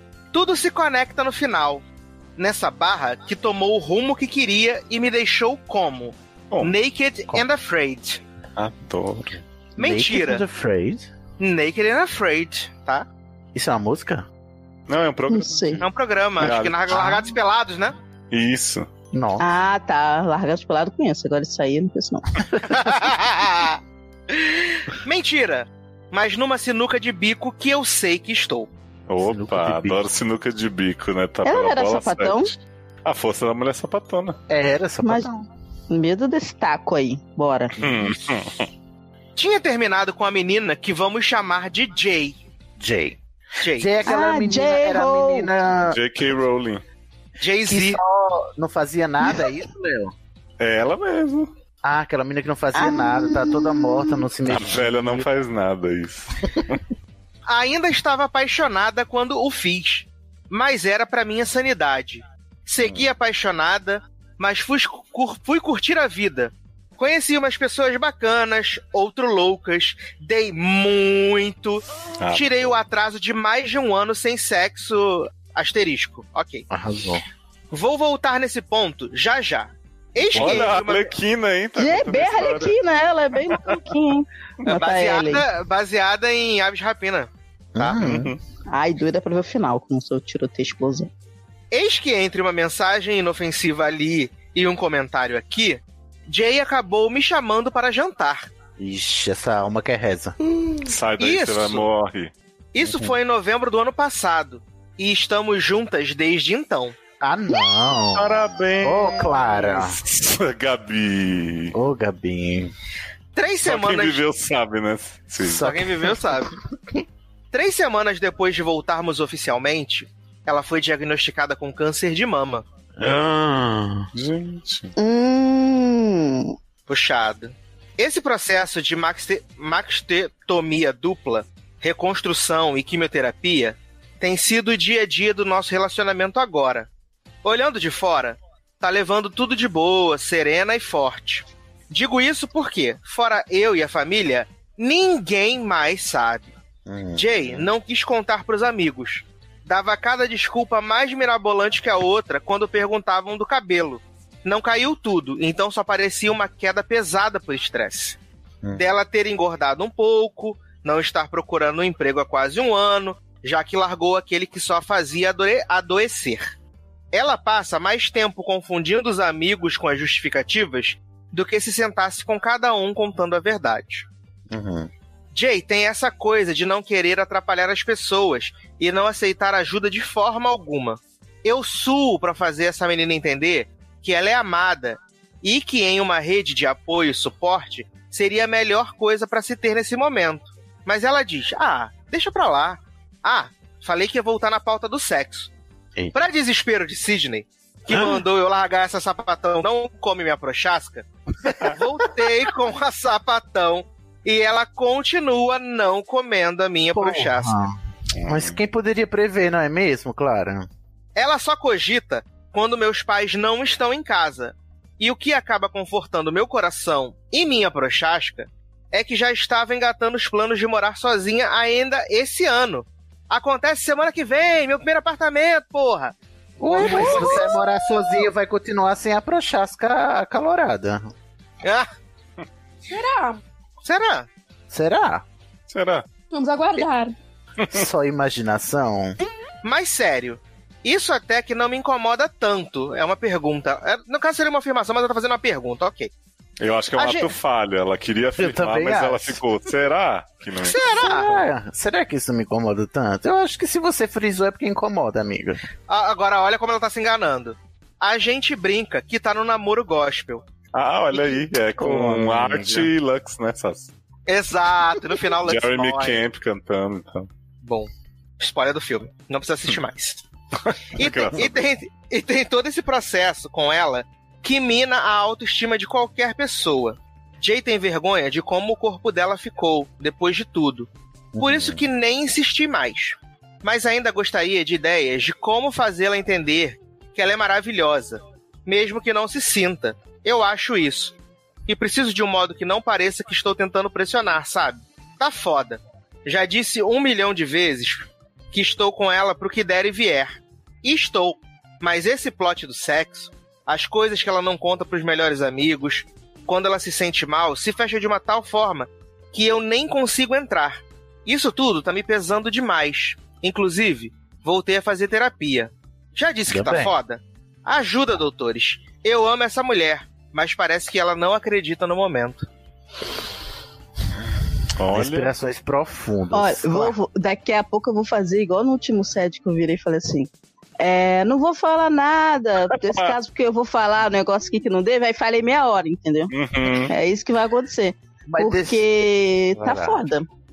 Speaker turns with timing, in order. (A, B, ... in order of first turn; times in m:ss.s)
0:00.3-0:01.8 A
0:02.4-0:08.2 A
0:08.6-0:09.4 B
0:09.8-0:10.4 A
0:09.8-0:11.1 C
0:11.4-0:13.1 A
0:13.5-0:14.3 C
0:14.9-0:16.8 B
0:15.3-0:15.8 D
0:15.8-0:17.9 A
0:16.9-0:17.3 C
0:18.3-0:18.9 B
0:19.1-0:19.4 C
0:19.4-0:22.4 D
0:22.7-0:23.8 A
0:24.3-0:28.7 A
0:29.1-0:34.4 B
0:29.2-0:30.0 C
0:31.4-0:32.5 D
0:34.5-0:35.4 C
0:35.0-0:35.3 D
0:35.9-0:37.7 D
0:37.8-0:38.7 B
0:37.8-0:38.1 C
0:39.4-0:42.4 A
0:42.8-0:43.2 C
0:43.6-0:43.9 A
0:43.7-0:46.0 C
0:44.0-0:45.5 D
0:45.9-0:46.8 B
0:47.4-0:48.0 A
0:47.6-0:50.1 C
0:50.6-0:51.5 B
0:51.8-0:55.2 C
0:52.7-0:54.2 D
0:54.5-0:56.4 B
0:57.4-1:16.6 A
1:12.2-1:12.8 B
1:16.7-1:17.2 C
1:17.7-1:21.1 A
1:20.2-1:22.8 B
1:20.3-1:20.6 C
1:21.8-1:25.4 D
1:24.7-1:28.0 A
1:27.8-1:28.3 C
1:27.9-1:28.4 B
1:28.7-1:31.1 D
1:31.7-1:38.5 A
1:38.8-1:40.4 C
1:40.8-1:42.3 B
1:41.2-1:41.8 A
1:42.7-1:46.9 A
1:42.8-1:43.1 C
1:47.2-1:50.0 C
1:48.1-1:51.7 B
1:51.7-1:52.7 C
1:53.3-1:54.2 A
1:53.6-1:55.8 B
1:55.4-1:56.1 C
1:55.5-1:56.5 A
1:57.5-2:02.6 A
2:03.0-2:04.1 C
2:04.1-2:04.9 B
2:05.0-2:06.5 D
2:06.9-2:16.9 A
2:17.4-2:26.5 A
2:26.8-2:27.7 C
2:27.2-2:38.2 A
2:38.7-2:46.4 A
2:47.1-2:54.1 A
2:54.5-2:54.9 C
2:55.3-3:15.5 A
3:16.1-3:21.0 A
3:21.6-3:27.6 A
3:26.9-3:27.7 C
3:28.2-3:28.6 B
3:28.2-3:30.7 C
3:31.2-3:46.1 A
3:46.6-3:51.1 C
3:46.7-3:47.5 A
3:46.8-3:47.5 E
3:51.6-3:51.9 A
3:52.9-3:53.4 E
3:53.8-3:54.3 A
3:54.7-3:55.2 C
3:55.7-3:56.0 B
3:56.3-3:57.1 E
3:57.7-3:59.2 C
3:59.6-4:06.1 A
4:06.6-4:11.2 B
4:06.9-4:07.3 A
4:08.4-4:09.4 C
4:10.6-4:11.2 A
4:10.9-4:15.6 C
4:15.9-4:20.4 A
4:20.7-4:23.9 B
4:21.8-4:22.9 C
4:24.3-4:26.2 A
4:25.4-4:27.3 B
4:27.6-4:30.2 A
4:30.6-4:31.5 B
4:31.0-4:40.9 A
4:41.3-4:41.8 C
4:41.4-4:51.1 A
4:51.7-5:00.3 A
5:00.8-5:22.4 A
5:16.5-5:16.9 C
5:24.8-5:25.3 B
5:24.9-5:27.0 C
5:26.3-5:36.3 D
5:32.8-5:33.1 B
5:36.3-5:36.9 B
5:36.8-5:40.2 D
5:38.2-5:38.8 C
5:39.5-5:40.0 C